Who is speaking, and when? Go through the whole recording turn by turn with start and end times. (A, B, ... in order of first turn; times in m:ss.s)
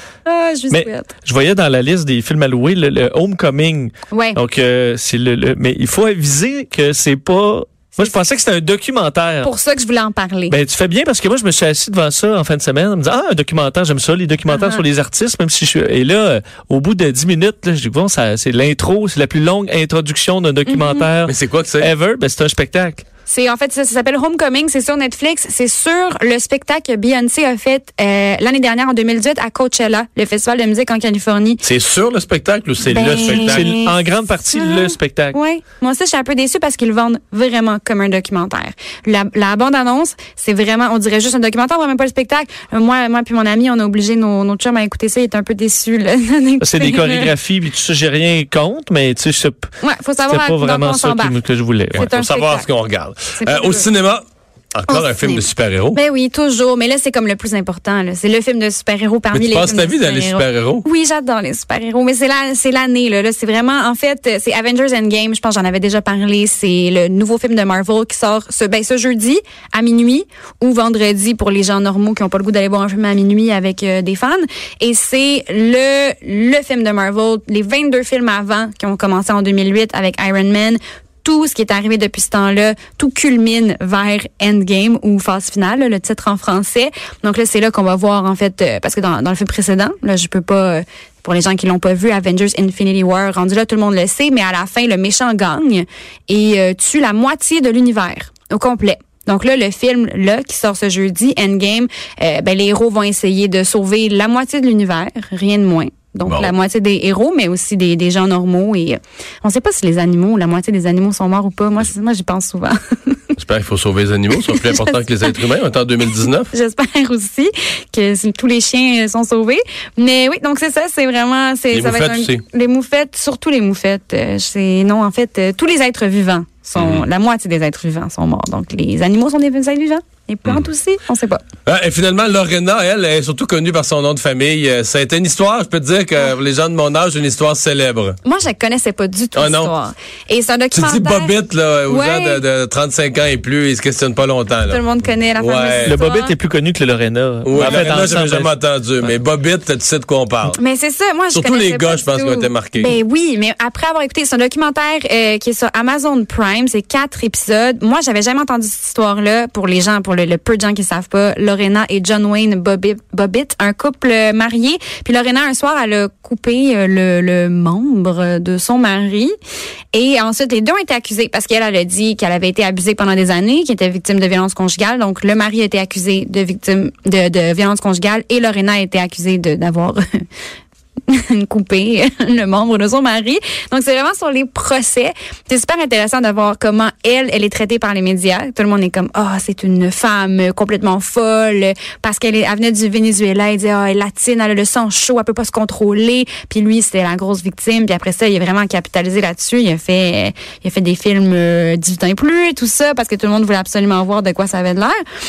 0:00.3-0:01.1 A
0:00.7-0:09.5 B
0:04.1-0:04.4 A
0:09.4-0:10.6 A
0:10.5-0:23.0 B
0:14.5-0:14.8 A
0:20.7-0:21.1 A
0:21.3-0:21.9 C
0:23.3-0:31.6 A
0:31.6-0:33.7 C
0:32.8-0:47.3 A
0:32.8-0:35.4 B
0:46.6-0:49.7 B
0:49.8-0:51.4 A
0:50.3-0:52.1 B
0:51.9-0:52.7 A
0:51.9-0:56.0 C
0:53.4-0:53.9 A
0:54.9-1:53.4 A
0:59.3-1:00.8 C
1:46.3-1:46.5 C
1:53.4-1:56.5 C
1:54.5-1:55.4 A
1:56.2-2:11.4 A
2:01.7-2:02.4 C
2:06.8-2:07.1 C
2:11.7-2:18.2 C
2:18.2-2:21.4 A
2:19.4-2:19.7 C
2:20.8-2:24.8 C
2:21.9-2:22.4 A
2:24.6-2:26.4 A
2:25.4-2:26.0 C
2:25.8-2:29.1 B
2:27.5-2:30.6 C
2:27.6-2:28.1 A
2:30.5-2:49.3 A
2:31.3-2:33.0 C
2:49.9-3:00.0 A
3:01.1-3:25.0 A